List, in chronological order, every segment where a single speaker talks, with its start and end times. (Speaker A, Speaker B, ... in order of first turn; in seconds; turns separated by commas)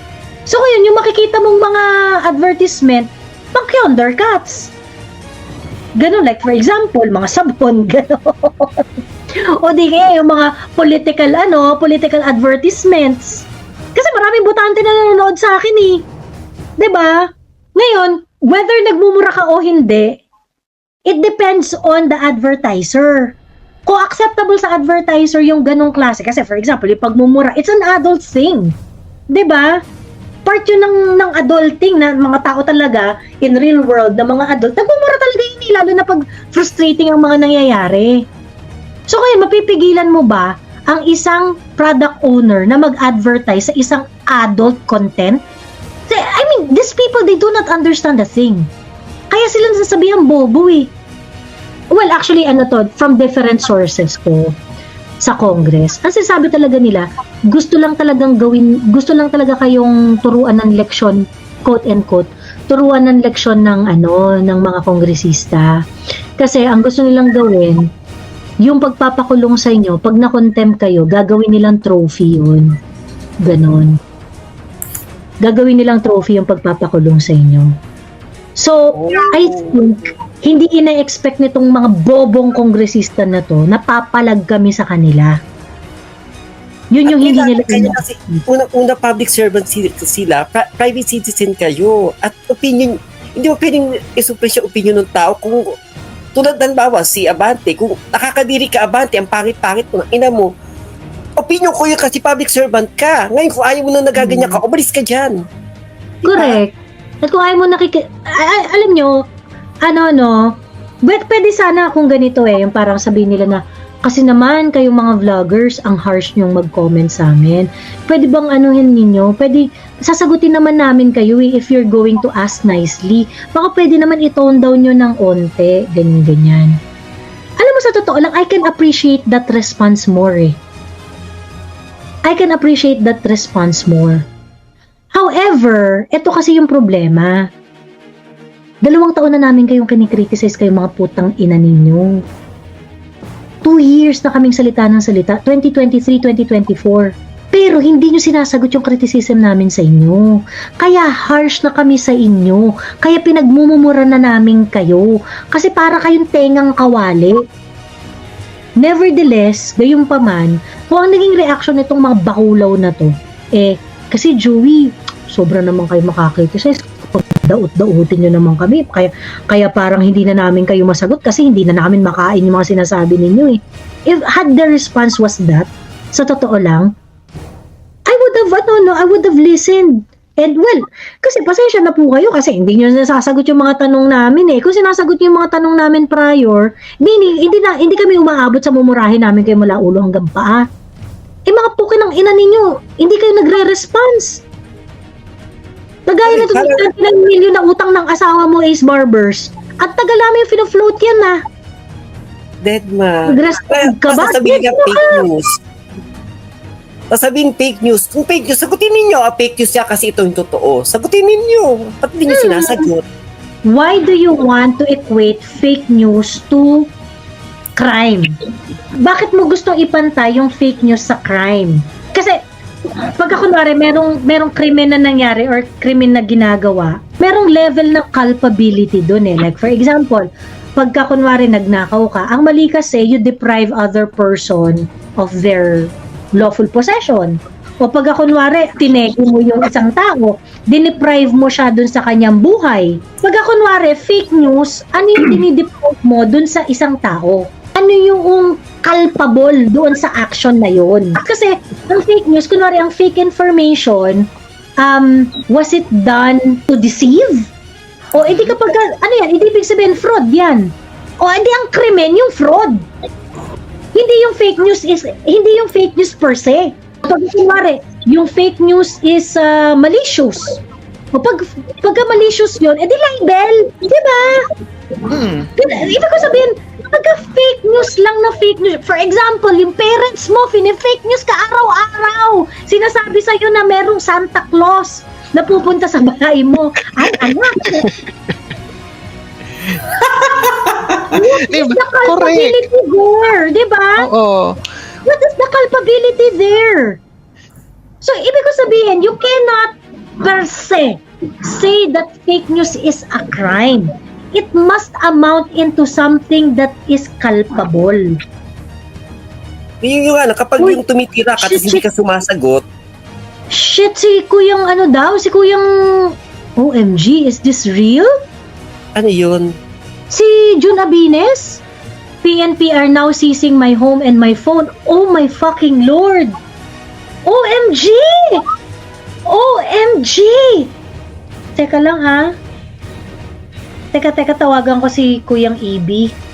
Speaker A: 0.5-4.7, Speaker A: 6.0-8.9, Speaker A: 9.5-16.1, Speaker A: 16.8-20.2, Speaker A: 21.1-28.7, Speaker A: 29.3-29.8, Speaker A: 30.4-38.2, Speaker A: 39.1-45.4, Speaker A: 46.1-48.7, Speaker A: 49.3-50.9, Speaker A: 51.9-54.5, Speaker A: 55.2-65.7, Speaker A: 66.4-67.8, Speaker A: 68.6-72.7, Speaker A: 73.4-73.9, Speaker A: 75.4-77.7, Speaker A: 78.6-85.3, Speaker B: 78.9-79.8, Speaker A: 86.9-88.4, Speaker B: 87.0-95.7, Speaker B: 96.3-100.5, Speaker B: 101.4-105.4, Speaker A: 104.2-104.6, Speaker A: 106.2-109.1, Speaker B: 106.3-106.6, Speaker A: 109.8-110.5, Speaker A: 111.0-126.7, Speaker A: 127.6-130.6, Speaker A: 132.3-134.3, Speaker A: 135.1-137.4, Speaker A: 138.8-142.2, Speaker A: 143.6-157.4, Speaker A: 158.8-176.9, Speaker A: 178.1-190.6, Speaker A: 191.5-194.4, Speaker A: 196.1-201.4, Speaker B: 196.2-196.9, Speaker B: 202.6-205.5, Speaker A: 203.3-205.2, Speaker B: 207.1-213.0, Speaker A: 212.3-212.9, Speaker A: 213.7-216.9, Speaker A: 217.8-218.3, Speaker A: 219.0-222.4, Speaker A: 223.2-254.3, Speaker A: 254.8-257.5, Speaker A: 258.1-262.8, Speaker A: 263.9-270.6, Speaker A: 271.1-274.5, Speaker C: 275.2-275.4, Speaker A: 275.2-288.0, Speaker A: 289.9-294.1, Speaker C: 290.2-290.5, Speaker C: 291.1-292.6, Speaker C: 294.0-294.6, Speaker A: 295.0-297.0, Speaker A: 298.0-308.1, Speaker B: 309.8-312.6, Speaker A: 311.4-311.8, Speaker A: 313.5-318.1, Speaker B: 318.9-319.5, Speaker A: 320.1-321.6, Speaker A: 322.2-326.4, Speaker A: 327.2-328.4, Speaker A: 329.3-330.7, Speaker A: 331.5-332.3, Speaker A: 333.9-336.1